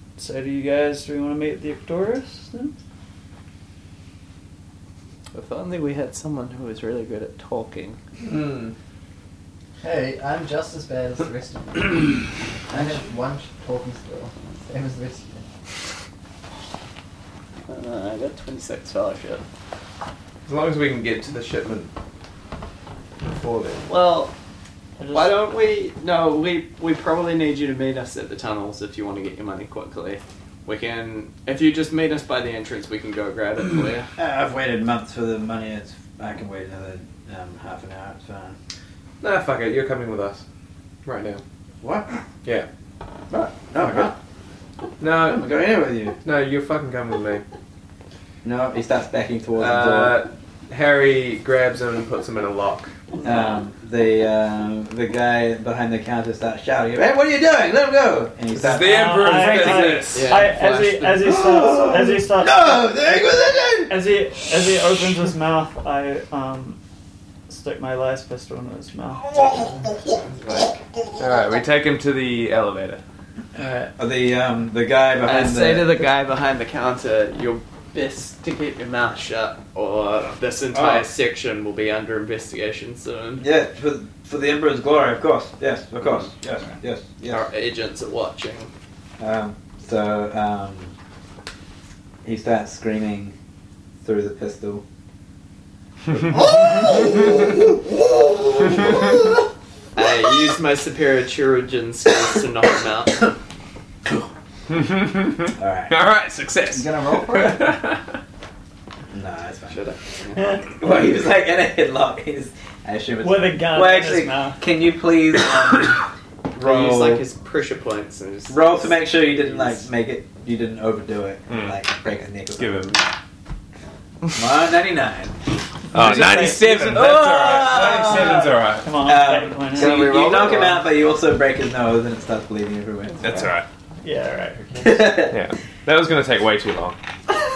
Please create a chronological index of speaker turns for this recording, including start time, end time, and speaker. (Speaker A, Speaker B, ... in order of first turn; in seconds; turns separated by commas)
Speaker A: 0.2-2.8, Speaker B: 5.3-8.0, Speaker C: 8.2-8.7, Speaker D: 9.8-10.4, Speaker B: 10.4-11.7, Speaker B: 12.8-13.2, Speaker D: 12.8-15.2, Speaker B: 17.7-19.4, Speaker C: 20.4-21.9, Speaker C: 23.2-23.9, Speaker B: 23.9-24.3, Speaker A: 25.0-25.3, Speaker B: 25.1-34.1, Speaker E: 34.2-38.5, Speaker C: 39.2-40.4, Speaker C: 41.0-41.4, Speaker E: 41.8-42.1, Speaker E: 43.3-44.1, Speaker C: 43.8-44.1, Speaker C: 45.0-45.5, Speaker E: 45.1-46.1, Speaker C: 46.2-47.4, Speaker E: 48.4-50.2, Speaker C: 49.6-52.9, Speaker A: 53.1-53.6, Speaker E: 53.2-60.0, Speaker C: 58.5-60.5, Speaker A: 58.7-63.0, Speaker B: 60.1-61.2, Speaker E: 61.2-63.9, Speaker A: 63.9-66.8, Speaker A: 67.5-69.8, Speaker E: 69.3-70.2, Speaker B: 70.3-70.8, Speaker C: 71.2-73.0, Speaker E: 73.5-76.0, Speaker B: 75.2-83.4, Speaker E: 80.7-81.0, Speaker E: 83.4-87.5, Speaker B: 87.2-88.7, Speaker E: 89.2-90.9, Speaker E: 92.2-93.3, Speaker E: 94.0-94.8, Speaker E: 96.1-99.1, Speaker B: 99.9-103.3, Speaker C: 104.7-108.1, Speaker E: 105.6-106.0, Speaker E: 106.7-107.8, Speaker E: 109.1-109.8, Speaker B: 109.7-110.6, Speaker E: 110.6-116.0, Speaker A: 113.2-114.6, Speaker E: 116.5-117.2, Speaker B: 116.5-119.8, Speaker E: 118.5-123.0, Speaker C: 121.5-121.8, Speaker C: 122.5-123.0, Speaker E: 124.3-125.3, Speaker C: 125.9-129.0, Speaker A: 125.9-127.1, Speaker E: 126.0-133.4, Speaker A: 127.9-130.0, Speaker D: 129.8-130.8, Speaker C: 133.2-133.7, Speaker A: 134.0-135.2, Speaker E: 134.8-135.3, Speaker C: 135.3-137.0